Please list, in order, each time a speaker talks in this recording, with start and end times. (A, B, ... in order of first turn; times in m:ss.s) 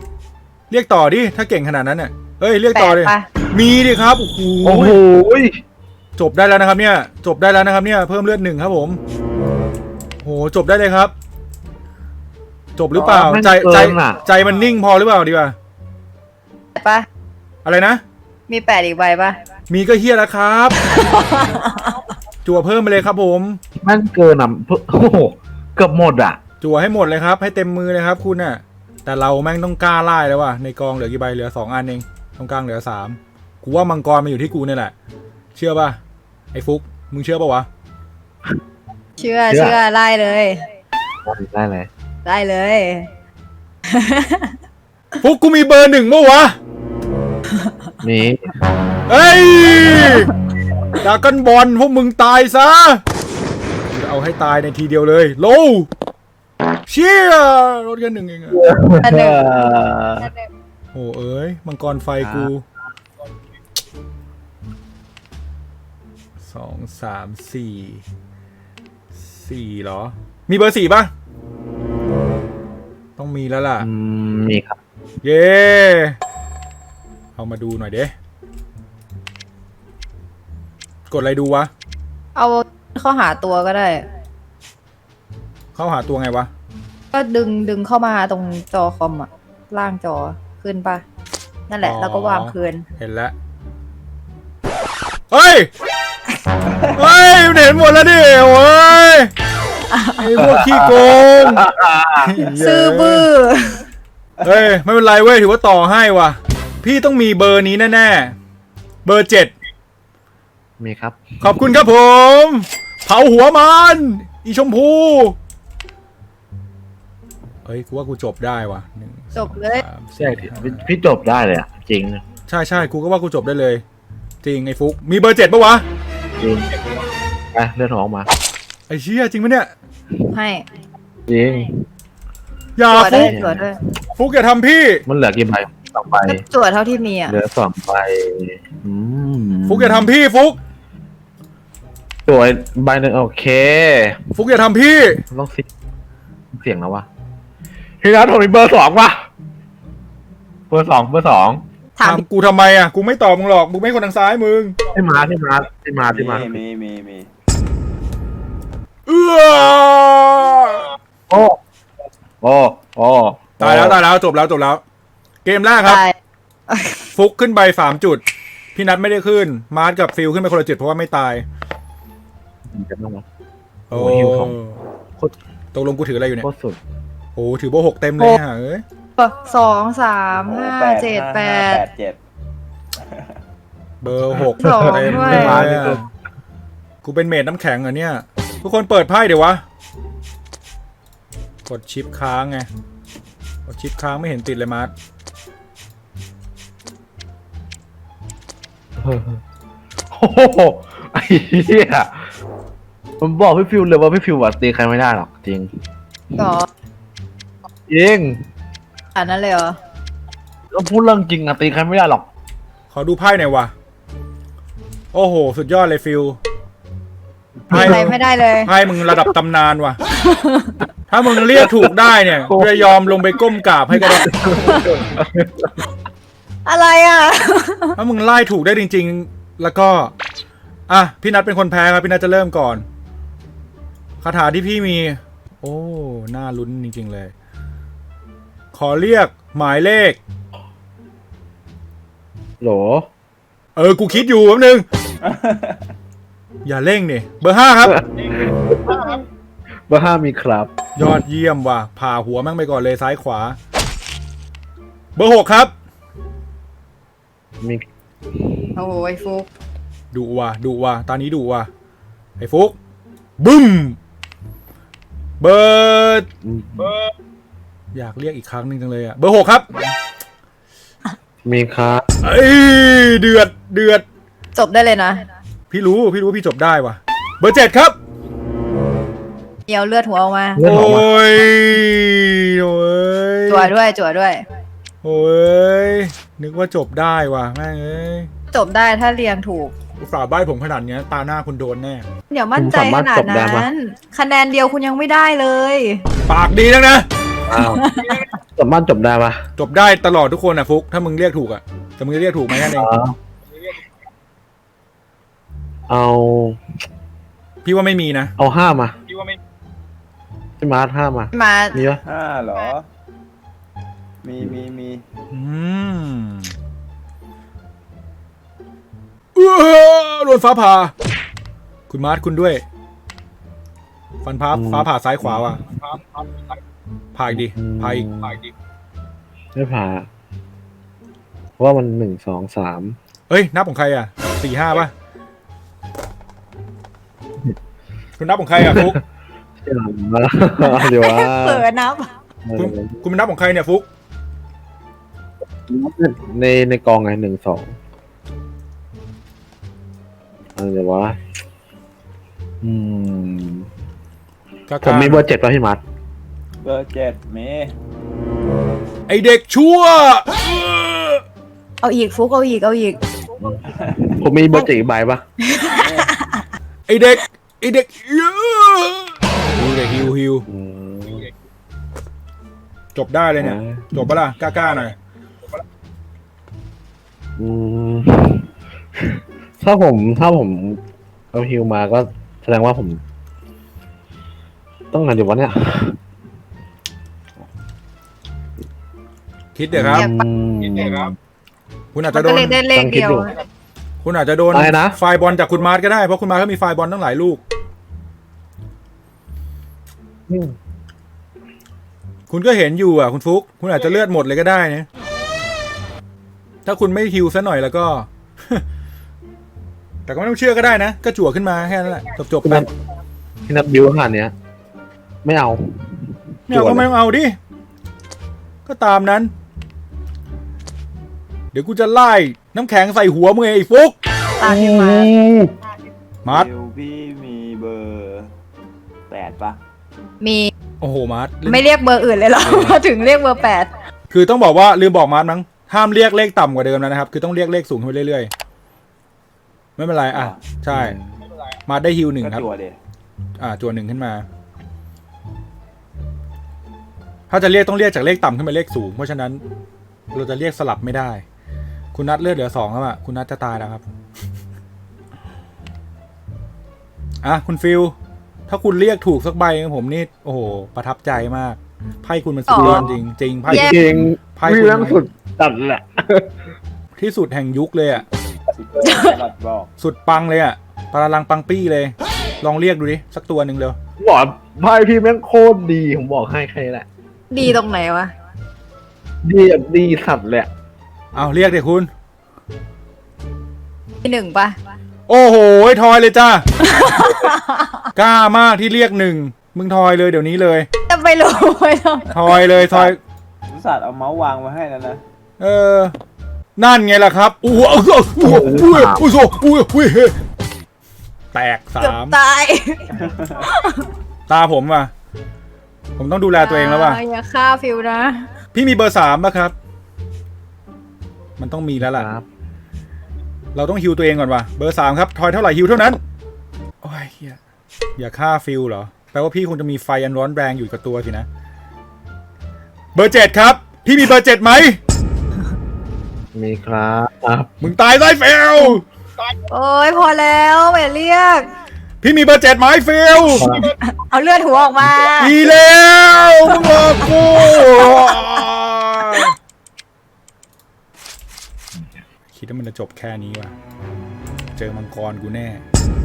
0:00.7-0:05.0 A
0:02.7-0:03.2 B
0:04.6-0:05.6 C
0:06.2-0:09.0 A
0:10.2-0:11.1 A
0:12.8-0:15.6 A
0:12.9-0:14.2 C
0:16.8-0:17.0 B
0:17.6-0:18.0 A
0:18.5-0:19.4 B
0:19.7-0:20.8 A
0:20.8-0:21.9 B
0:22.4-0:23.6 A
0:23.8-0:26.4 C
0:26.6-0:34.9 A
0:35.5-0:36.0 A
0:36.5-0:37.7 A
0:39.2-0:40.6 B
0:39.5-0:39.8 C
0:41.2-0:41.9 C
0:42.2-0:43.1 B
0:43.9-0:44.5 B
0:45.2-0:46.6 A
0:48.0-0:48.6 C
0:49.1-0:50.3 A
0:51.0-0:53.0 A
0:53.9-0:55.9 A
0:56.9-0:58.7 A
0:58.5-1:00.3 C
0:59.0-0:59.4 B
1:00.9-1:02.6 A
1:02.2-1:02.5 C
1:06.4-1:08.0 A
1:09.1-1:11.1 A
1:13.2-1:13.9 A
1:13.8-1:14.8 C
1:15.2-1:16.2 A
1:17.3-1:18.1 A
1:21.1-1:21.7 A
1:22.4-1:24.0 B
1:25.7-1:26.5 A
1:27.1-1:31.0 B
1:31.7-1:32.8 B
1:31.8-1:33.3 A
1:35.3-1:35.7 A
1:36.9-1:39.3 A
1:39.9-1:40.2 B
1:40.2-1:41.6 A
1:40.3-1:42.5 C
1:42.2-1:43.3 A
1:42.6-1:43.8 B
1:44.4-1:48.4 A
1:49.0-1:49.5 A
1:50.8-1:51.4 C
1:51.4-1:55.4 A
1:57.6-2:00.8 A
1:59.3-1:59.8 B
2:00.2-2:02.2 C
2:02.5-2:03.8 A
2:04.4-2:05.8 A
2:06.4-2:06.7 C
2:07.5-2:08.3 C
2:08.9-2:09.7 A
2:10.3-2:10.6 B
2:11.3-2:11.8 C
2:12.8-2:13.3 A
2:12.9-2:13.8 B
2:13.0-2:13.6 C
2:14.2-2:15.0 A
2:15.0-2:16.4 C
2:16.2-2:17.3 B
2:17.3-2:20.1 C
2:19.6-2:20.6 A
2:22.2-2:24.2 C
2:24.3-2:25.2 A
2:25.3-2:25.7 C
2:26.5-2:27.0 C
2:28.0-2:29.3 C
2:30.7-2:31.6 C
2:32.0-2:32.2 B
2:32.0-2:34.8 A
2:34.9-2:36.6 C
2:36.1-2:37.3 D
2:39.1-2:41.0 A
2:41.3-2:41.6 C
2:42.4-2:44.0 C
2:43.6-2:44.8 A
2:45.4-2:46.0 A
2:45.8-2:46.2 B
2:46.7-2:47.0 B
2:47.1-2:48.2 A
2:48.7-2:51.4 A
2:52.7-2:53.2 C
2:53.9-2:54.6 C
2:53.9-2:54.8 A
2:55.7-2:56.4 A
2:56.4-2:56.8 C
2:57.4-2:58.8 A
2:59.2-3:01.8 B
3:00.5-3:02.2 D
3:03.0-3:03.4 D
3:04.0-3:06.0 A
3:04.3-3:06.1 C
3:04.6-3:05.7 B
3:07.0-3:09.6 A
3:11.6-3:12.7 A
3:13.6-3:14.9 A
3:19.0-3:19.4 C
3:20.1-3:22.3 C
3:23.2-3:25.7 C
3:26.4-3:26.7 B
3:27.9-3:28.4 C
3:29.1-3:29.8 B
3:30.7-3:32.3 C
3:32.9-3:33.7 A
3:35.1-3:36.4 A
3:37.7-3:38.1 C
3:37.7-3:40.0 A
3:37.7-3:38.7 B
3:39.0-3:39.3 C
3:40.2-3:40.8 B
3:41.1-3:44.4 A
3:41.4-3:45.9 C
3:44.6-3:45.0 B
3:46.6-3:48.0 B
3:48.0-3:50.1 A
3:50.9-3:52.8 A
3:54.2-3:57.3 A
3:58.7-4:00.2 A
4:02.6-4:03.1 C
4:03.8-4:04.8 A
4:05.2-4:05.9 D
4:06.6-4:08.0 A
4:07.8-4:09.2 C
4:09.9-4:10.7 C
4:11.0-4:13.6 A
4:15.2-4:15.7 A
4:17.6-4:18.6 C
4:18.8-4:19.5 B
4:20.1-4:21.7 A
4:22.4-4:22.8 A
4:23.4-4:24.0 A
4:25.4-4:26.3 A
4:26.4-4:26.9 C
4:27.9-4:29.9 A
4:31.4-4:32.0 C
4:32.2-4:34.0 A
4:34.5-4:35.2 B
4:35.7-4:38.0 A
4:39.7-4:40.7 B
4:40.6-4:41.0 C
4:40.6-4:43.7 A
4:43.5-4:44.4 B
4:45.0-4:48.3 A
4:48.5-4:49.7 B
4:50.0-4:52.1 A
4:52.3-4:56.0 B
4:52.6-4:53.7 C
4:56.3-4:57.1 A
4:57.5-4:57.8 C
4:57.5-4:58.3 B
4:58.5-4:59.4 C
4:59.6-5:02.9 A
5:02.6-5:03.1 C
5:05.9-5:06.6 C
5:07.6-5:08.3 A
5:08.4-5:08.9 C
5:10.6-5:12.0 C
5:11.3-5:11.8 B
5:12.0-5:12.8 D
5:14.2-5:15.0 D
5:15.3-5:16.5 A
5:19.3-5:20.9 A
5:21.9-5:22.6 A
5:24.2-5:25.6 A
5:24.5-5:25.4 C
5:27.1-5:28.4 A
5:27.3-5:28.4 C
5:29.5-5:30.1 C
5:31.6-5:33.0 C
5:33.3-5:34.9 A
5:38.2-5:39.0 A
5:38.6-5:39.0 C
5:39.6-5:41.6 C
5:40.6-5:42.1 B
5:42.4-5:43.0 C
5:42.6-5:43.9 A
5:45.7-5:47.7 C
5:50.6-5:51.2 C
5:52.6-5:53.7 C
5:54.7-5:55.2 A
5:54.8-5:55.8 C
5:56.6-5:57.7 D
5:59.1-6:01.2 A
6:01.8-6:03.0 B
6:03.8-6:04.2 D
6:04.2-6:05.2 C
6:05.5-6:05.8 B
6:05.6-6:06.1 D
6:06.9-6:10.4 A
6:10.5-6:11.3 C
6:12.9-6:14.9 A
6:13.4-6:13.9 C
6:17.4-6:20.8 C
6:21.3-6:23.0 C
6:24.9-6:26.0 C
6:29.5-6:30.1 A
6:29.7-6:31.2 C
6:31.9-6:32.6 A
6:32.1-6:33.4 B
6:32.7-6:33.3 C
6:34.0-6:37.4 A
6:34.5-6:35.0 C
6:40.3-6:40.6 C
6:42.3-6:44.9 A
6:46.6-6:48.6 A
6:50.0-6:52.7 A
6:52.4-6:52.7 C
6:53.4-6:54.3 C
6:55.2-6:56.9 C
6:56.5-6:57.4 A
6:58.6-6:59.3 A
7:01.5-7:04.0 A
7:04.4-7:05.1 B
7:04.4-7:05.5 C
7:06.2-7:08.3 D
7:09.1-7:09.6 D
7:10.2-7:10.5 B
7:10.8-7:11.6 A
7:11.4-7:13.7 B
7:12.4-7:12.8 A
7:14.1-7:18.3 A
7:19.8-7:21.0 A
7:20.1-7:20.4 D
7:20.7-7:21.1 C
7:21.7-7:22.4 A
7:22.2-7:22.8 D
7:23.4-7:24.2 A
7:27.3-7:29.4 A
7:30.1-7:31.2 A
7:31.9-7:33.9 A
7:37.2-7:37.9 A
7:38.5-7:45.0 A
7:42.5-7:42.8 B
7:42.6-7:46.4 C
7:43.5-7:43.8 B
7:47.0-7:48.0 A
7:48.5-7:49.7 D
7:48.8-7:49.2 B
7:49.8-7:53.8 A
7:54.0-7:56.8 C
7:57.3-7:58.1 B
7:59.2-8:00.5 C
8:01.1-8:01.9 A
8:04.0-8:04.6 B
8:05.1-8:06.5 A
8:06.6-8:07.8 B
8:07.9-8:10.7 A
8:10.9-8:12.1 B
8:12.1-8:13.0 A
8:12.3-8:13.0 D
8:13.5-8:15.0 D
8:15.4-8:15.9 A
8:16.6-8:20.2 A
8:18.2-8:19.0 C
8:21.3-8:22.2 A
8:21.8-8:22.9 B
8:22.9-8:23.4 D
8:23.4-8:23.8 B
8:24.3-8:24.9 A
8:26.0-8:27.0 A
8:26.3-8:28.3 B
8:28.5-8:29.5 A
8:31.4-8:32.1 A
8:31.8-8:32.2 C
8:33.5-8:36.0 A
8:36.8-8:37.4 A
8:38.0-8:41.3 A
8:42.9-8:44.8 A
8:46.3-8:47.5 C
8:47.6-8:48.8 A
8:49.5-8:51.5 B
8:52.0-8:53.6 A
8:53.3-8:53.7 C
8:53.8-8:55.4 B
8:54.8-8:55.2 C
8:55.2-8:59.4 A
9:02.3-9:03.5 A
9:04.5-9:05.6 A